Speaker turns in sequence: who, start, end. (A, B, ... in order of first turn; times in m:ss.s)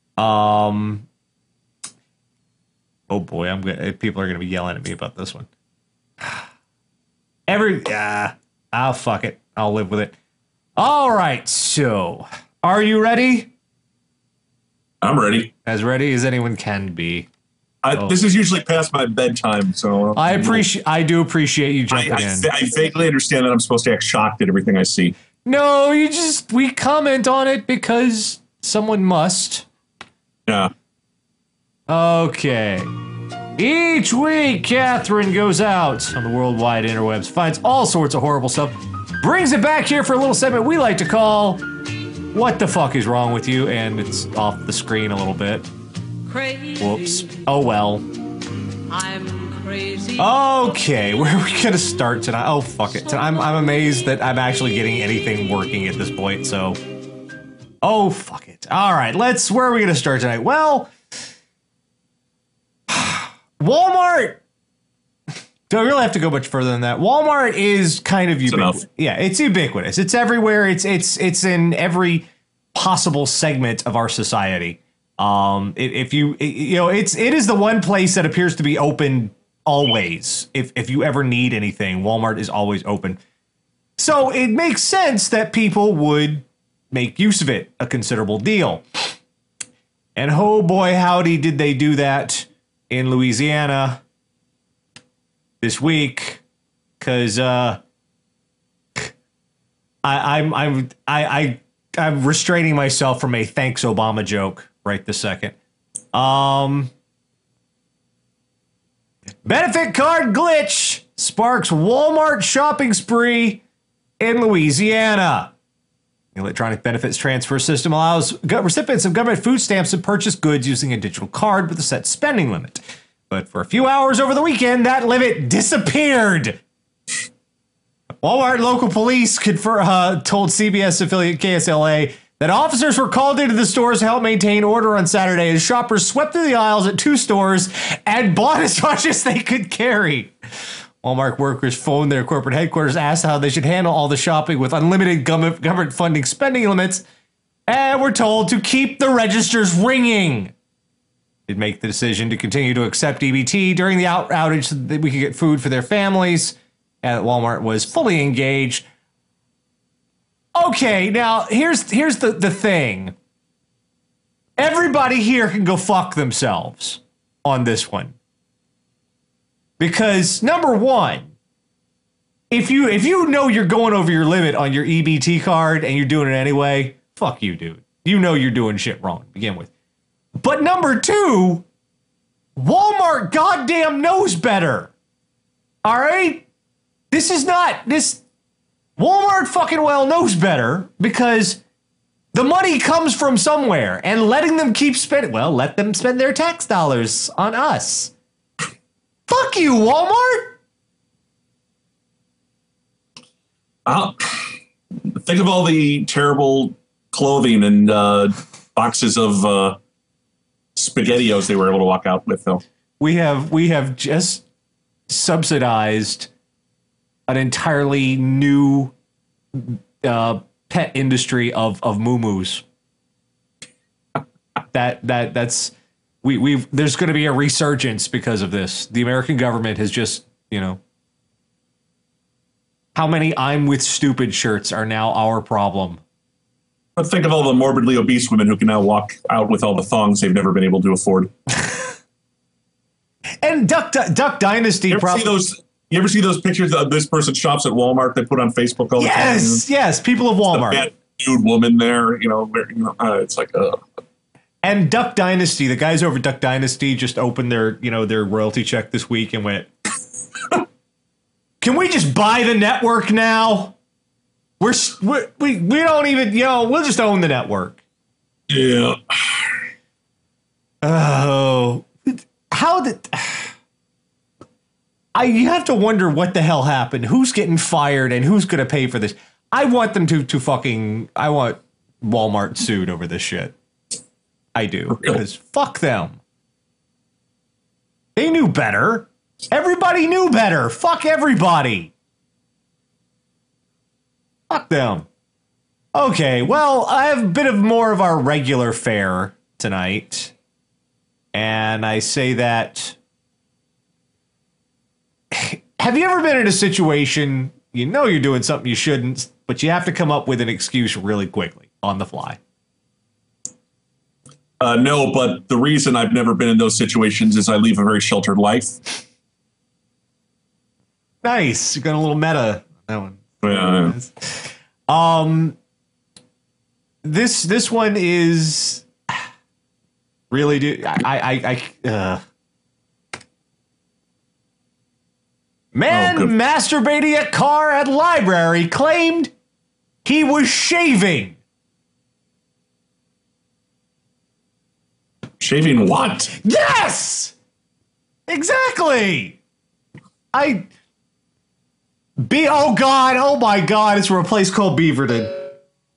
0:00.2-0:01.1 A
0:03.1-0:05.5 A
0:07.5-0:10.2 A
0:10.8-0:13.5 A
0:15.0-0:15.5 B
0:15.6-0:17.3 A
0:17.8-0:20.6 B
0:17.9-0:18.2 A
0:20.1-0:22.5 A
0:21.9-0:25.1 B
0:25.4-0:29.7 A
0:30.5-0:30.7 B
0:31.9-0:32.9 A
0:33.6-0:41.6 A
0:42.3-0:45.7 A
0:46.3-0:47.4 C
0:46.8-0:48.0 A
0:48.9-0:50.3 C
0:50.2-0:56.8 A
0:57.8-1:00.9 A
1:02.9-1:04.4 A
1:05.7-1:23.2 A
1:08.5-1:08.8 B
1:24.0-1:29.1 A
1:30.2-1:34.0 A
1:35.6-1:36.4 A
1:37.0-1:37.8 A
1:40.0-1:45.6 A
1:46.1-1:46.9 A
1:49.4-1:53.6 A
1:54.2-1:55.5 A
1:56.3-2:06.6 A
2:08.2-2:20.3 A
2:21.0-2:27.0 A
2:27.7-2:30.5 A
2:31.5-2:38.9 A
2:40.6-2:43.2 A
2:44.6-2:48.2 A
2:49.8-2:51.3 A
2:52.5-2:59.7 A
3:00.4-3:01.6 A
3:02.6-3:04.9 A
3:05.8-3:06.5 A
3:07.1-3:08.2 A
3:09.0-3:11.6 A
3:12.3-3:18.1 A
3:19.3-3:20.6 A
3:23.9-3:24.5 B
3:25.1-3:29.8 B
3:30.8-3:32.6 B
3:33.0-3:34.4 A
3:35.1-3:36.3 A
3:37.3-3:38.9 A
3:39.6-3:42.6 A
3:44.7-3:50.8 A
3:52.9-3:56.0 A
3:57.0-4:01.3 B
4:03.4-4:05.3 A
4:04.9-4:09.6 B
4:09.0-4:10.9 A
4:10.5-4:13.8 B
4:14.6-4:19.7 A
4:21.6-4:23.8 A
4:24.6-4:27.8 A
4:28.5-4:29.6 B
4:30.8-4:33.5 A
4:35.1-4:43.5 A
4:44.5-4:46.2 A
4:48.2-4:51.9 A
4:54.5-4:55.1 A
4:55.9-5:00.3 A
5:01.3-5:03.0 A
5:05.3-5:12.4 A
5:14.6-5:18.8 B
5:21.2-5:25.6 A
5:23.4-5:23.9 B
5:27.0-5:29.1 A
5:30.3-5:32.2 A
5:35.7-5:39.3 A
5:35.9-5:36.3 B
5:40.0-5:41.4 A
5:45.4-5:46.3 B
5:46.4-5:47.4 A
5:48.3-5:49.4 A
5:50.3-5:50.7 A
5:52.2-5:55.5 A